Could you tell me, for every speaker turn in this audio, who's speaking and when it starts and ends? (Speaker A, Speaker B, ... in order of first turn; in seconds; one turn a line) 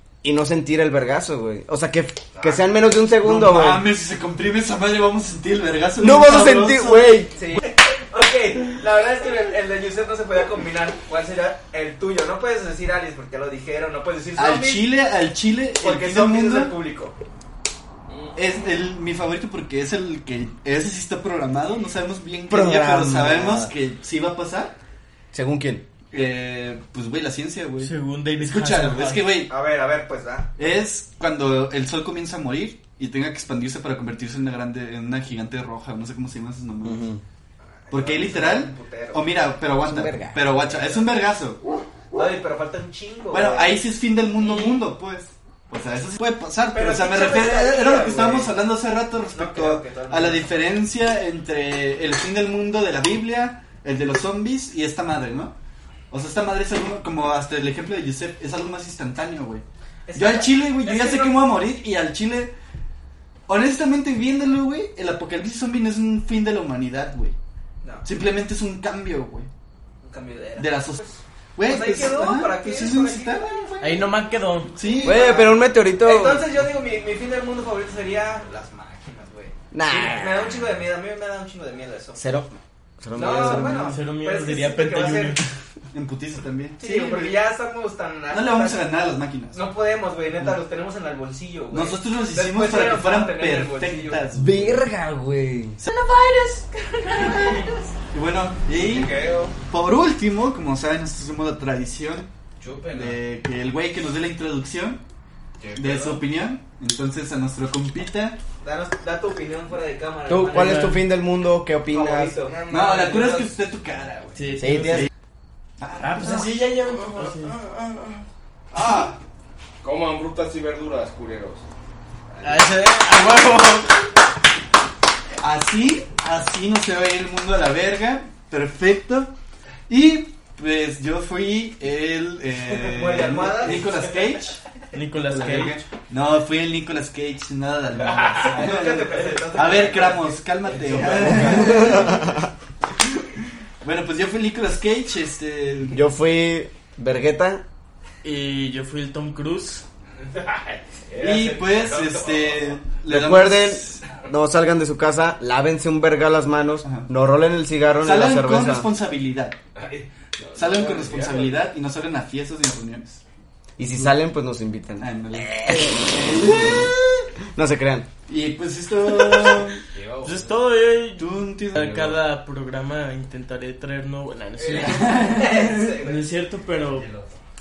Speaker A: 0.2-3.8
Speaker B: 3.2-7.3
Speaker A: 6.0-7.4
Speaker C: 7.4-14.8
Speaker B: 14.4-16.8
Speaker C: 15.8-17.1
Speaker B: 18.4-24.8
Speaker A: 22.5-23.7
Speaker A: 25.3-25.9
Speaker B: 26.1-29.5
Speaker D: 27.8-29.3
Speaker C: 29.5-30.5
Speaker B: 30.6-37.1
Speaker A: 36.8-37.2
Speaker C: 37.9-39.6
Speaker B: 37.9-41.6
Speaker A: 39.9-40.5
Speaker C: 40.6-41.1
Speaker C: 42.1-43.8
Speaker B: 43.3-55.6
Speaker C: 44.4-44.9
Speaker C: 46.7-48.5
Speaker C: 49.3-50.5
Speaker B: 56.1-62.5
Speaker C: 60.1-61.5
Speaker B: 63.5-67.4
Speaker C: 67.8-68.1
Speaker B: 68.0-69.5
Speaker C: 70.0-73.6
Speaker B: 70.6-71.0
Speaker B: 71.6-74.1
Speaker D: 73.8-74.7
Speaker B: 74.7-75.2
Speaker C: 74.8-82.2
Speaker A: 75.0-76.5
Speaker A: 79.7-80.7
Speaker A: 82.2-83.9
Speaker C: 83.2-85.4
Speaker D: 83.7-85.5
Speaker B: 85.9-87.5
Speaker C: 86.8-89.0
Speaker B: 88.3-89.7
Speaker C: 89.5-94.2
Speaker B: 91.7-94.8
Speaker A: 94.3-95.8
Speaker C: 95.9-97.9
Speaker E: 97.3-97.7
Speaker B: 98.1-99.1
Speaker C: 98.8-99.5
Speaker E: 99.0-99.5
Speaker B: 99.7-102.3
Speaker E: 102.6-103.2
Speaker B: 102.9-105.0
Speaker E: 105.6-106.2
Speaker B: 105.7-108.4
Speaker C: 108.6-110.9
Speaker A: 110.3-112.4
Speaker D: 110.5-111.0
Speaker C: 111.9-112.6
Speaker E: 112.4-113.6
Speaker B: 112.7-115.1
Speaker D: 114.4-115.1
Speaker A: 114.6-115.1
Speaker B: 115.8-116.7
Speaker D: 116.0-117.6
Speaker E: 116.4-117.3
Speaker B: 117.3-118.1
Speaker E: 118.7-119.2
Speaker B: 118.8-119.1
Speaker E: 119.8-121.6
Speaker D: 122.4-124.1
Speaker B: 125.4-129.3
Speaker B: 129.9-134.6
Speaker C: 132.6-133.9
Speaker D: 134.9-135.8
Speaker B: 135.3-142.4
Speaker C: 138.4-141.9
Speaker A: 141.3-142.5
Speaker B: 143.8-146.0
Speaker A: 145.9-147.6
Speaker D: 148.2-149.8
Speaker E: 150.3-152.8
Speaker B: 151.2-154.0
Speaker A: 153.1-158.9
Speaker B: 158.0-159.6
Speaker E: 159.8-161.6
Speaker B: 160.5-163.2
Speaker A: 163.8-168.1
Speaker B: 165.0-166.9
Speaker B: 168.3-169.9
Speaker E: 169.9-170.7
Speaker D: 170.2-175.2
Speaker B: 171.2-172.0
Speaker C: 174.6-176.2
Speaker B: 174.7-175.9
Speaker D: 176.0-177.1
Speaker E: 176.9-177.3